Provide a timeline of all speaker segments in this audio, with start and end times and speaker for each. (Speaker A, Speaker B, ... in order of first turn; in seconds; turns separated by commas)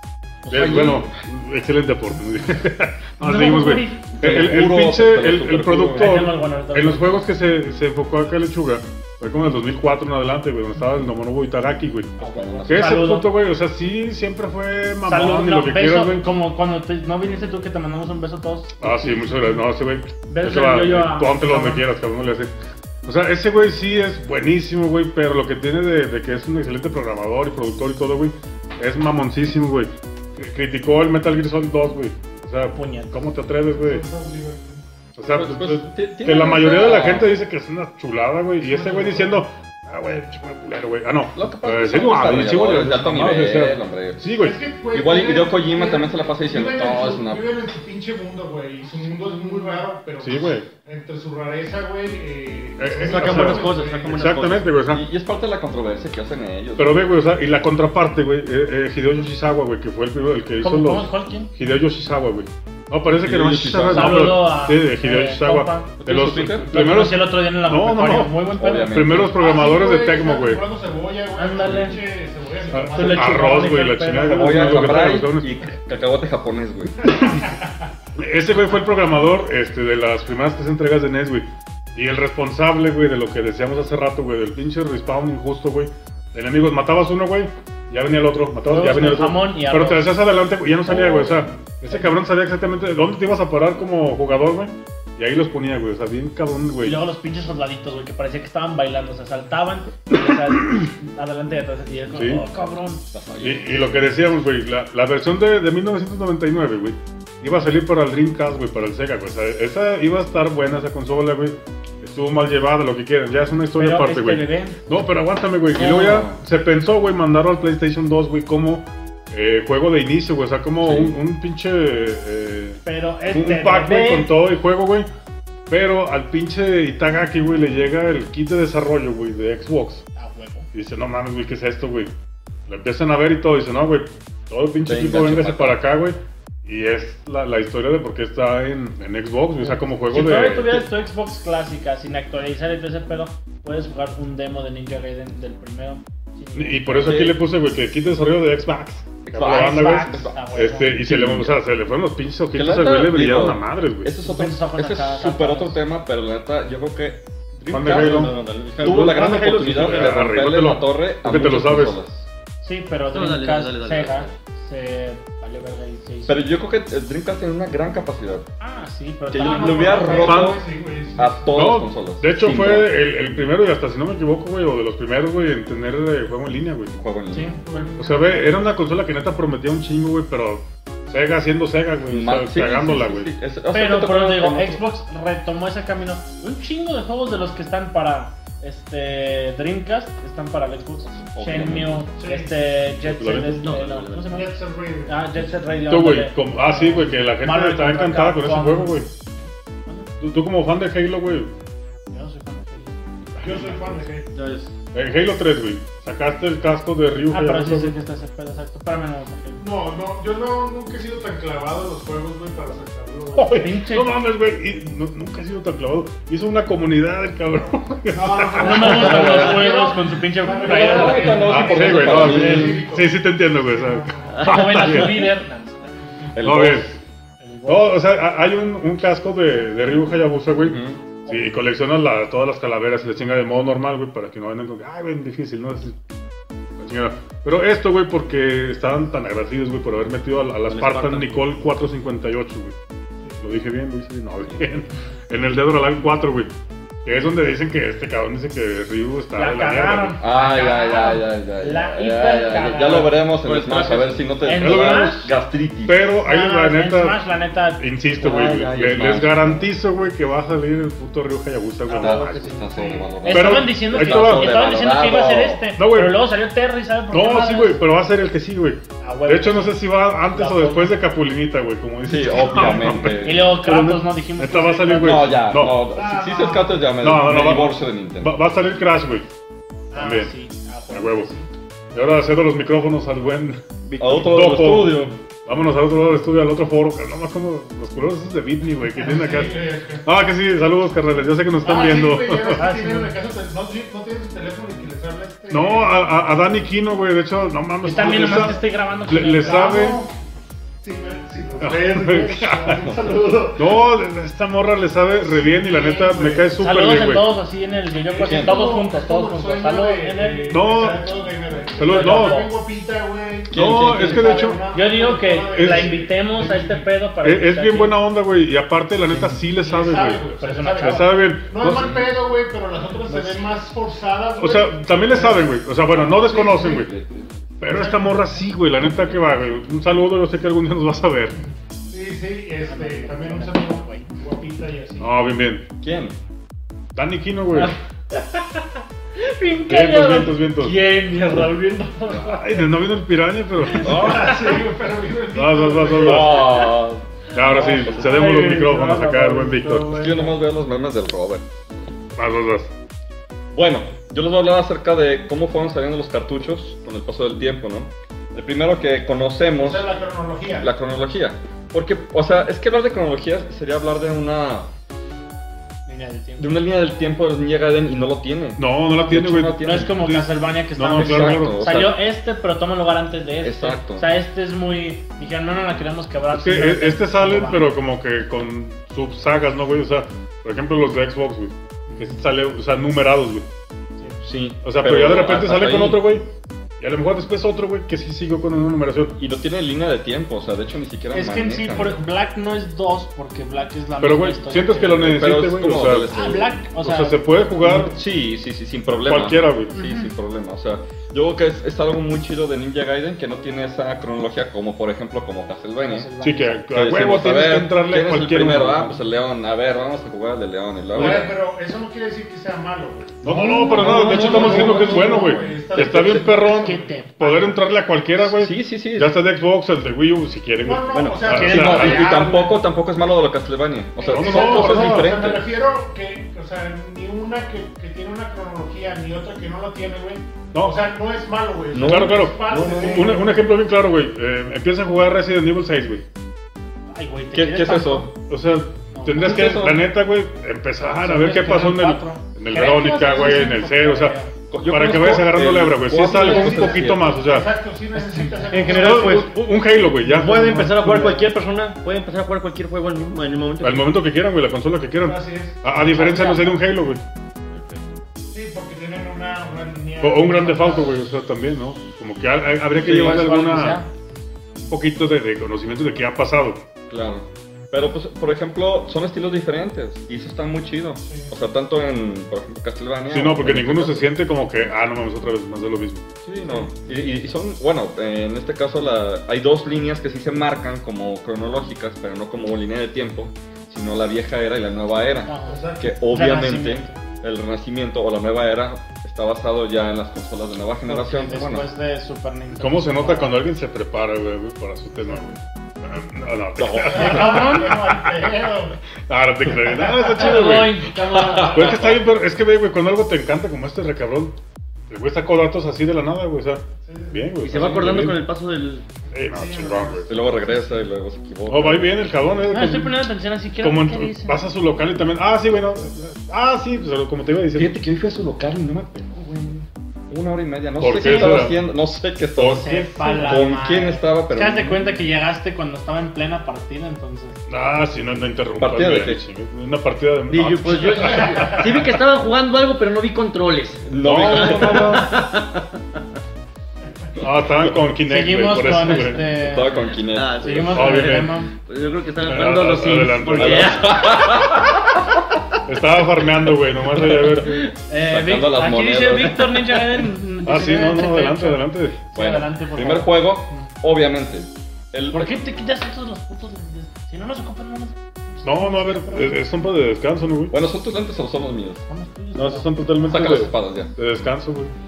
Speaker A: 0.5-0.7, Speaker B: 0.5-1.2, Speaker C: 0.5-16.2, Speaker A: 3.2-4.1, Speaker B: 4.2-6.3, Speaker A: 5.9-7.3, Speaker A: 12.2-13.3, Speaker B: 12.2-13.1, Speaker A: 15.1-19.6, Speaker C: 18.8-22.5, Speaker A: 20.3-21.9, Speaker C: 23.1-34.0, Speaker A: 32.7-33.1, Speaker D: 33.8-34.8, Speaker C: 35.2-44.6, Speaker B: 35.3-37.4, Speaker D: 38.6-39.4, Speaker B: 41.3-44.3, Speaker D: 44.4-54.4, Speaker B: 44.9-47.4, Speaker C: 50.2-50.7, Speaker C: 52.8-55.0, Speaker E: 53.0-54.7, Speaker B: 54.8-57.1, Speaker C: 56.8-70.6, Speaker A: 60.6-61.5, Speaker B: 63.2-64.4, Speaker A: 63.9-66.0, Speaker B: 66.0-67.0, Speaker A: 66.6-69.1, Speaker B: 68.5-69.4, Speaker D: 69.3-73.8, Speaker A: 71.3-72.0, Speaker C: 72.7-75.5, Speaker A: 72.9-74.8, Speaker B: 74.3-77.3, Speaker D: 77.3-77.7, Speaker C: 78.2-97.0, Speaker A: 88.7-90.1, Speaker B: 90.9-91.5, Speaker A: 96.8-103.0, Speaker C: 102.1-102.4, Speaker B: 103.1-104.2, Speaker C: 103.4-125.1, Speaker A: 113.8-114.8, Speaker B: 115.7-116.4, Speaker B: 120.8-121.2, Speaker A: 122.8-124.3, Speaker C: 125.7-130.1, Speaker A: 130.2-130.7, Speaker C: 130.7-132.1, Speaker C: 132.7-140.9, Speaker B: 134.8-135.8, Speaker A: 139.6-147.2, Speaker C: 146.6-154.1, Speaker B: 146.9-147.4, Speaker B: 149.3-151.6, Speaker A: 149.4-151.0, Speaker B: 152.5-162.3, Speaker A: 154.2-155.8, Speaker C: 157.7-161.9, Speaker E: 157.8-160.0, Speaker A: 162.6-166.5, Speaker E: 163.1-164.3, Speaker B: 166.3-168.5, Speaker A: 168.6-170.4, Speaker B: 169.3-170.6, Speaker D: 169.3-171.5, Speaker C: 170.2-170.6, Speaker B: 171.2-172.9, Speaker C: 171.5-176.9, Speaker B: 176.9-177.6, Speaker A: 177.3-178.4, Speaker D: 177.6-178.5, Speaker C: 178.0-183.3, Speaker B: 182.1-184.8, Speaker A: 183.7-194.6, Speaker B: 191.3-192.1, Speaker D: 192.2-192.5, Speaker C: 193.0-193.8, Speaker E: 193.5-194.4, Speaker D: 194.3-195.3, Speaker A: 195.1-199.1, Speaker C: 195.9-199.1, Speaker A: 199.9-200.1, Speaker C: 200.2-201.5, Speaker A: 202.1-203.0, Speaker D: 203.4-204.3, Speaker E: 204.3-204.7, Speaker C: 204.9-207.9, Speaker A: 207.3-209.6, Speaker D: 209.6-213.7, Speaker C: 213.4-219.4, Speaker A: 213.6-214.1, Speaker D: 218.1-224.4, Speaker A: 218.6-222.6, Speaker B: 218.8-219.7, Speaker B: 220.5-222.9, Speaker C: 221.3-225.2, Speaker A: 224.4-225.9, Speaker B: 226.3-227.0, Speaker C: 226.4-226.9, Speaker A: 227.4-228.0, Speaker C: 227.7-236.0, Speaker B: 230.6-231.0, Speaker A: 231.3-231.5, Speaker C: 236.8-242.7, Speaker E: 240.7-241.6, Speaker C: 243.4-246.5, Speaker C: 247.1-250.2, Speaker A: 249.3-253.3, Speaker B: 250.2-256.1, Speaker E: 253.4-254.2, Speaker A: 254.4-255.3, Speaker C: 254.6-255.2, Speaker C: 255.9-257.2, Speaker A: 256.2-257.8, Speaker C: 257.8-262.6, Speaker B: 258.2-259.7, Speaker E: 258.4-258.6, Speaker B: 261.9-265.7, Speaker A: 261.9-267.8, Speaker D: 262.7-263.0, Speaker C: 263.3-264.6, Speaker C: 265.8-266.2, Speaker C: 267.1-275.8, Speaker A: 269.0-270.9, Speaker B: 272.1-273.6, Speaker A: 273.2-275.4, Speaker B: 274.9-278.4, Speaker D: 275.9-276.9, Speaker C: 277.0-279.3, Speaker A: 279.9-281.5, Speaker C: 279.9-280.3, Speaker C: 280.9-281.3, Speaker C: 281.9-292.7, Speaker B: 284.0-285.2, Speaker D: 288.9-290.1, Speaker D: 291.6-296.1, Speaker A: 292.5-293.1, Speaker C: 295.5-300.0, Speaker A: 297.8-300.0, Speaker D: 297.9-298.6, Speaker D: 299.4-300.1, Speaker D: 300.8-303.8, Speaker C: 301.6-302.8, Speaker C: 303.6-307.3, Speaker D: 305.2-306.6, Speaker A: 306.6-310.5, Speaker D: 308.1-316.9, Speaker B: 308.2-308.6, Speaker C: 310.5-311.1, Speaker C: 311.8-312.4, Speaker A: 311.8-312.5, Speaker B: 313.5-314.5, Speaker C: 313.5-314.6, Speaker A: 314.6-318.0, Speaker C: 315.5-316.0, Speaker C: 317.2-322.1, Speaker A: 319.1-319.4, Speaker D: 319.5-326.8, Speaker A: 320.4-321.2, Speaker C: 324.4-326.9, Speaker B: 325.9-327.5, Speaker C: 327.6-331.4, Speaker D: 327.7-328.4, Speaker D: 331.9-335.1, Speaker A: 332.7-334.1, Speaker C: 335.0-335.7, Speaker B: 335.8-336.2, Speaker C: 336.9-337.7, Speaker A: 337.6-342.7, Speaker C: 339.7-340.8, Speaker C: 342.1-344.1, Speaker A: 343.6-344.3, Speaker B: 343.8-344.4, Speaker D: 343.8-346.7, Speaker C: 345.3-346.6, Speaker B: 345.9-348.1, Speaker C: 347.3-349.9, Speaker A: 347.4-350.4, Speaker B: 349.9-351.4, Speaker C: 352.2-352.7, Speaker B: 353.5-359.9, Speaker D: 359.6-360.7, Speaker B: 360.6-364.7, Speaker A: 365.9-366.5, Speaker B: 366.4-370.1, Speaker C: 368.6-371.6, Speaker A: 369.0-377.7, Speaker B: 370.9-372.0, Speaker B: 373.4-374.1, Speaker C: 376.3-383.5, Speaker A: 381.9-382.2, Speaker B: 384.2-386.1, Speaker C: 384.6-386.3, Speaker C: 386.8-389.1, Speaker B: 389.2-392.0, Speaker A: 391.1-395.1, Speaker C: 394.0-396.1, Speaker B: 394.9-396.6, Speaker A: 396.1-397.2, Speaker C: 396.8-397.9, Speaker B: 397.6-406.1, Speaker C: 399.1-399.8, Speaker A: 399.8-400.1, Speaker A: 405.8-406.7, Speaker C: 406.2-409.0, Speaker B: 406.7-411.3, Speaker D: 410.9-416.9, Speaker C: 413.2-422.1, Speaker A: 413.3-417.6, Speaker B: 414.2-414.7, Speaker B: 418.2-419.2, Speaker D: 420.6-422.6, Speaker B: 421.0-425.5, Speaker A: 421.3-422.2, Speaker D: 424.0-433.2, Speaker C: 424.1-425.2, Speaker C: 430.5-430.8, Speaker B: 431.7-433.2, Speaker C: 431.8-436.0, Speaker A: 436.9-438.1, Speaker B: 437.3-438.1, Speaker C: 438.3-444.1, Speaker A: 438.9-439.6, Speaker B: 439.2-439.9, Speaker A: 440.8-444.3, Speaker B: 444.5-447.2, Speaker C: 444.7-447.5, Speaker D: 446.1-449.3, Speaker A: 447.9-448.7, Speaker E: 448.5-449.3, Speaker C: 448.6-451.3, Speaker E: 450.0-454.0, Speaker C: 453.6-457.0, Speaker D: 455.0-455.6, Speaker A: 455.7-456.6, Speaker D: 458.3-461.0, Speaker C: 460.0-463.8, Speaker A: 462.7-463.9, Speaker B: 462.8-463.3, Speaker C: 464.6-466.6, Speaker B: 466.9-474.1, Speaker D: 471.1-471.3, Speaker C: 473.1-476.1, Speaker B: 476.3-491.7, Speaker A: 485.3-486.9, Speaker D: 485.4-485.9, Speaker A: 490.9-493.4, Speaker C: 492.5-498.3, Speaker B: 496.6-497.6, Speaker D: 496.9-498.8, Speaker A: 496.9-498.6, Speaker C: 499.1-504.4, Speaker A: 500.1-502.0, Speaker B: 501.2-502.0, Speaker C: 504.9-508.3, Speaker D: 506.8-507.4, Speaker E: 507.4-508.9, Speaker C: 509.1-510.2, Speaker D: 509.2-510.2, Speaker B: 510.1-512.0, Speaker C: 511.5-513.0, Speaker A: 512.5-514.4, Speaker C: 513.6-517.8, Speaker B: 517.5-525.0, Speaker C: 520.8-521.6, Speaker C: 522.4-523.4, Speaker A: 522.4-527.4, Speaker C: 527.5-532.0, Speaker B: 528.6-529.2, Speaker E: 530.3-535.8, Speaker D: 531.3-531.5, Speaker B: 533.8-535.1, Speaker C: 534.0-535.1, Speaker C: 537.2-539.3, Speaker A: 538.0-541.5, Speaker B: 539.3-540.9, Speaker E: 540.1-544.5, Speaker C: 540.7-541.4, Speaker C: 542.2-544.0, Speaker B: 543.3-544.9, Speaker C: 545.7-547.6, Speaker A: 547.9-553.7, Speaker B: 548.0-550.0, Speaker C: 550.5-552.0, Speaker B: 552.1-555.4, Speaker A: 555.1-559.4, Speaker C: 558.4-560.5, Speaker B: 560.5-561.8, Speaker A: 561.9-563.2, Speaker C: 562.3-564.7, Speaker B: 563.1-564.0